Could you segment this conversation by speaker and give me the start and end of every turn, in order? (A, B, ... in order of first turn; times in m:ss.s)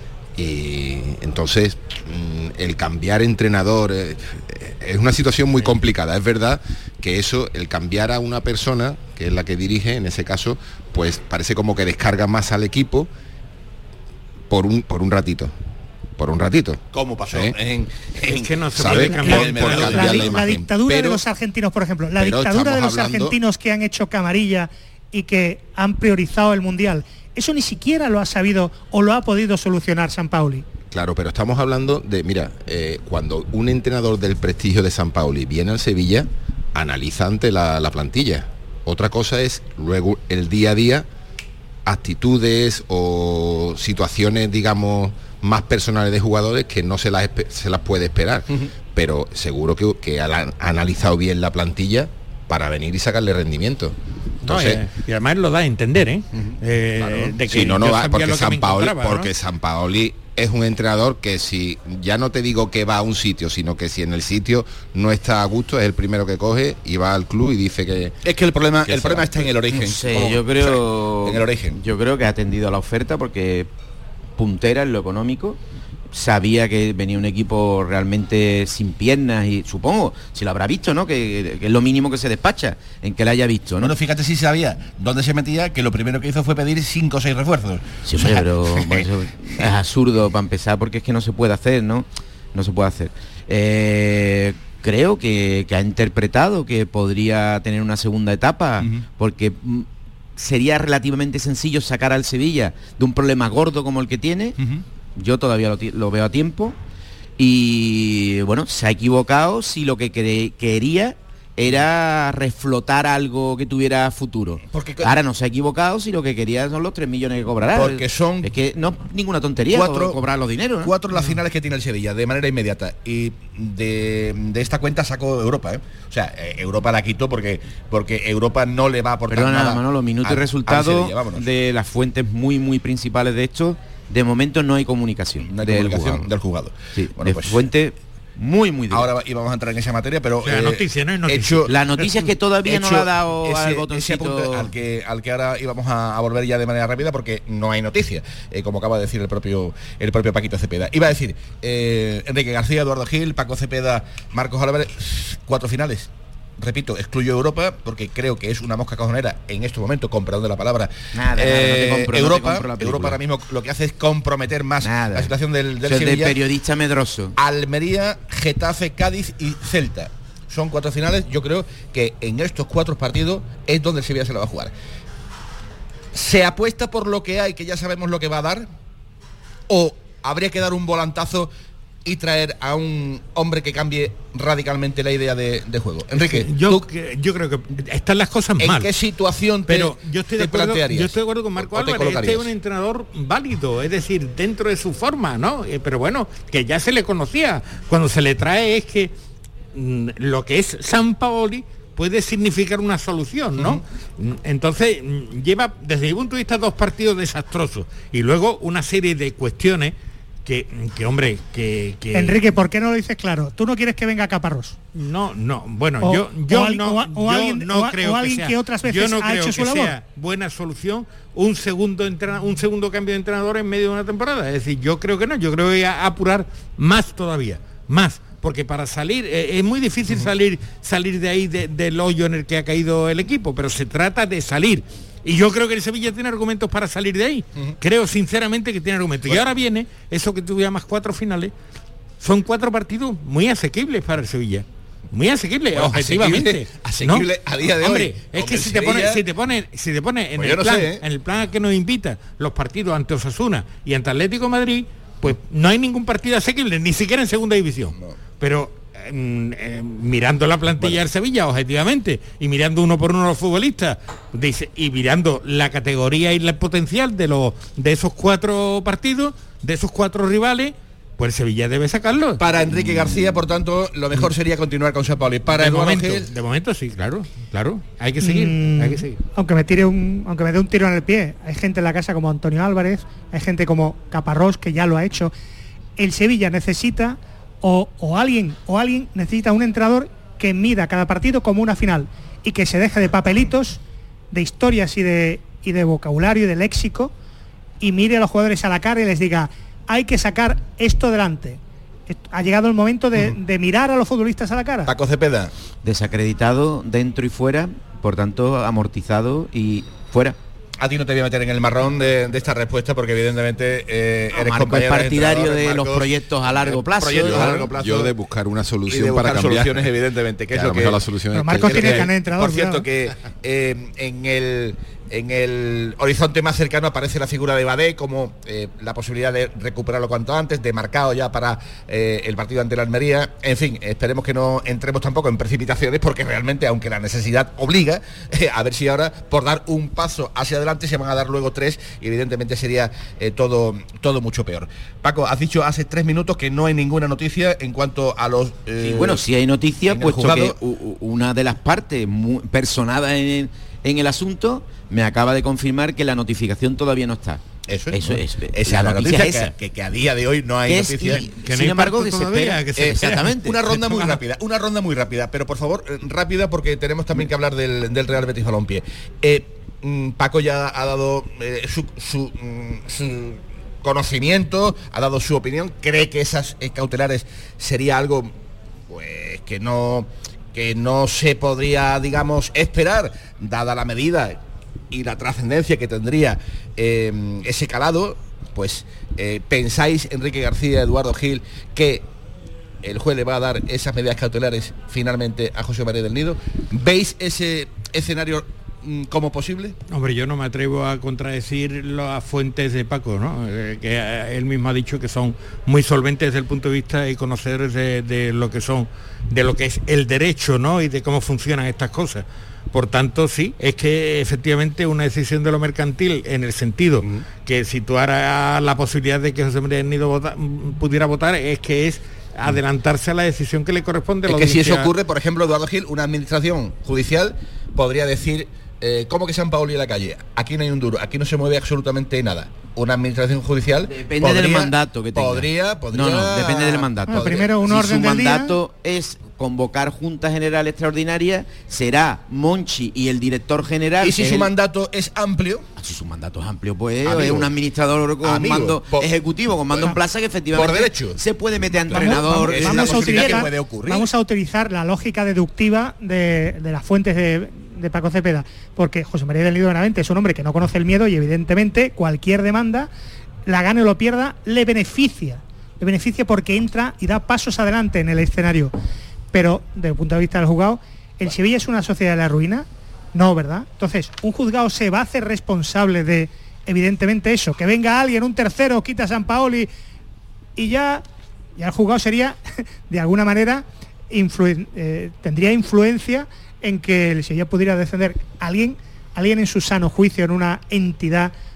0:00.4-0:13.1 A
0:14.5-0:15.5 A
0:16.2-0:17.5 A
0:16.9-0:20.4 B
0:18.2-0:20.2 C
0:18.8-0:21.2 A
0:19.2-0:30.6 D
0:22.1-0:23.4 A
0:30.9-0:41.1 A
0:41.8-0:54.8 A
0:54.4-0:59.3 C
0:57.0-1:08.1 A
1:08.2-1:11.8 B
1:08.8-1:09.4 A
1:09.7-1:13.7 E
1:14.4-1:15.6 E
1:16.1-1:23.9 E
1:23.8-1:29.1 B
1:28.0-1:44.5 E
1:45.2-1:46.8 E
1:47.4-2:00.9 E
1:54.7-1:55.2 B
1:57.7-1:58.5 B
1:59.7-2:00.2 B
2:00.8-2:11.5 B
2:09.3-2:16.3 E
2:15.4-2:17.6 B
2:17.0-2:19.1 E
2:18.9-2:21.7 B
2:20.4-2:21.7 C
2:21.7-2:24.7 E
2:22.6-2:46.4 B
2:41.1-2:43.2 E
2:44.8-2:47.3 E
2:47.4-2:54.7 B
2:56.1-2:58.7 B
2:59.7-3:01.5 B
3:02.0-3:06.8 B
3:06.1-3:08.9 C
3:08.6-3:12.5 B
3:09.7-3:19.1 C
3:19.7-3:29.9 C
3:23.6-3:23.8 B
3:30.4-3:32.4 C
3:32.1-3:34.8 D
3:34.9-4:01.5 C
3:36.0-3:39.9 D
4:02.2-4:07.3 C
4:05.7-4:09.2 B
4:07.8-4:32.4 C
4:10.4-4:11.0 B
4:32.4-4:36.3 B
4:35.5-4:39.2 C
4:38.2-4:45.3 D
4:46.0-4:53.8 D
4:54.3-4:57.1 D
4:57.8-5:04.9 D
5:04.8-5:05.5 B
5:05.8-5:10.4 E
5:10.8-5:18.1 B
5:14.3-5:17.7 E
5:17.3-5:19.9 A
5:18.9-5:49.3 B
5:20.5-5:22.1 A
5:21.3-5:22.9 D
5:48.8-5:59.5 E
5:49.9-5:50.6 B
5:57.7-6:01.3 B
6:00.6-6:03.6 E
6:01.1-6:04.2 C
6:02.8-6:18.3 B
6:18.9-6:24.4 B
6:24.9-6:32.0 B
6:32.8-6:39.8 B
6:39.9-7:04.9 C
7:04.3-7:18.0 B
7:13.8-7:24.5 E
7:17.1-7:18.6 D
7:24.0-7:25.6 B
7:25.8-7:33.4 E
7:27.0-7:27.5 B
7:28.2-7:30.0 B
7:30.5-7:31.2 B
7:31.8-7:34.1 B
7:31.9-7:42.9 D
7:43.5-7:48.7 D
7:49.3-7:59.7 D
8:00.6-8:01.0 D
8:01.6-8:11.3 D